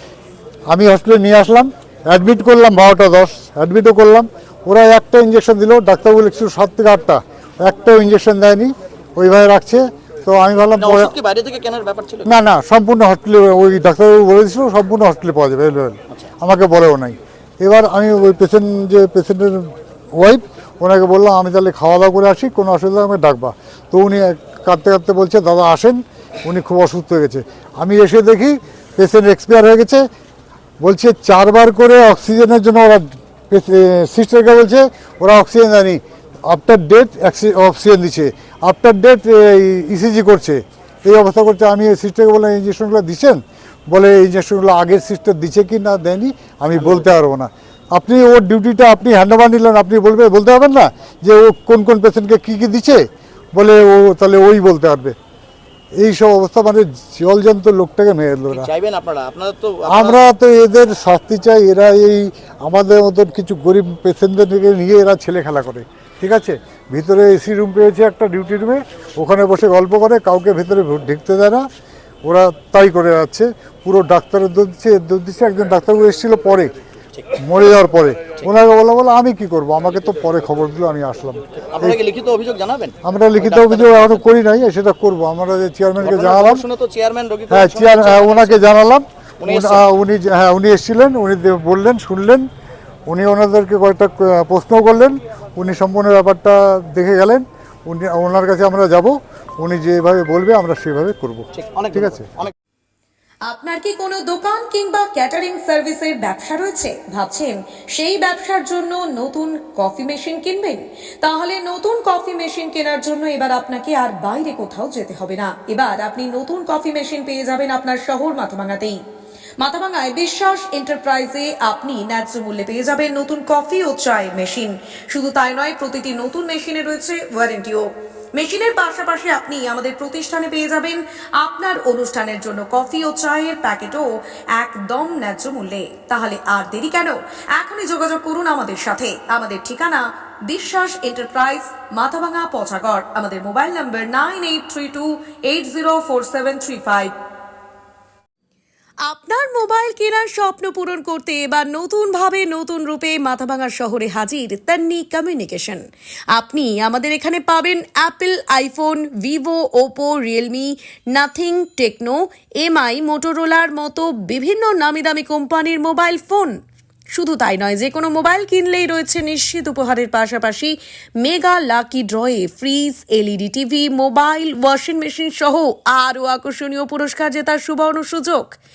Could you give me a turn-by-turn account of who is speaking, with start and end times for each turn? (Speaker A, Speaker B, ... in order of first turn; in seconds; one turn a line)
Speaker A: 0.7-11.1
Speaker B: 10.8-12.3
Speaker A: 12.3-30.1
Speaker A: 30.8-55.2
Speaker A: 56.0-58.7
Speaker B: 58.5-60.2
Speaker A: 59.9-71.7
Speaker A: 72.2-76.7
Speaker B: 77.2-77.5
Speaker A: 77.4-82.0
Speaker B: 81.7-84.3
Speaker A: 83.0-86.6
Speaker B: 86.0-88.8
Speaker A: 87.5-92.5
Speaker B: 89.4-89.9
Speaker A: 93.1-102.3
Speaker B: 101.5-102.5
Speaker C: 103.5-119.0
Speaker C: 119.6-147.1
Speaker C: 149.0-166.6
Speaker C: 167.1-178.6